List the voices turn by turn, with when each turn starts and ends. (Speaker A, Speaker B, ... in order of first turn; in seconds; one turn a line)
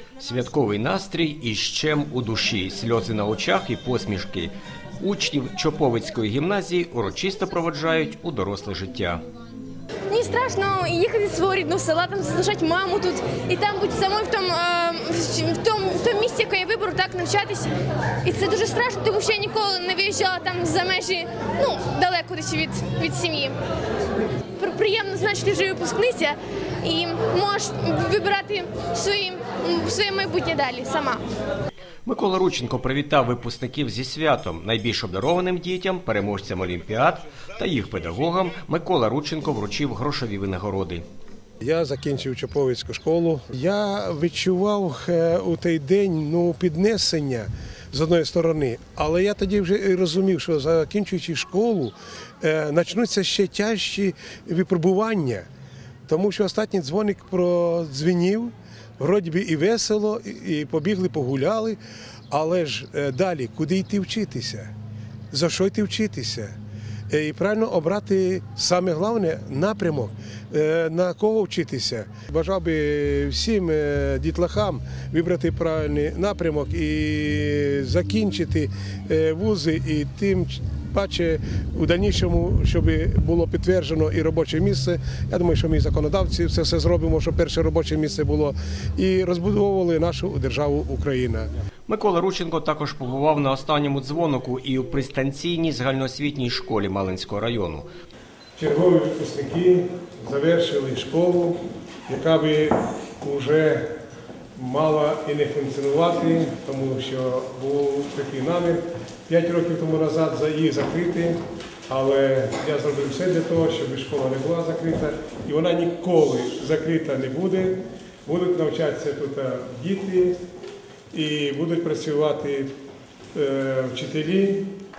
Speaker A: 0.2-9.2
Speaker B: 10.1-17.7
Speaker B: 18.2-23.5
Speaker B: 24.6-31.2
Speaker A: 32.0-41.0
Speaker C: 41.6-55.5
Speaker C: 56.1-61.8
Speaker C: 62.3-64.7
Speaker C: 65.3-66.5
Speaker C: 67.1-91.5
Speaker A: 91.9-97.9
Speaker C: 98.5-103.9
Speaker C: 104.5-120.4
Speaker C: 121.1-122.7
Speaker C: 123.3-124.7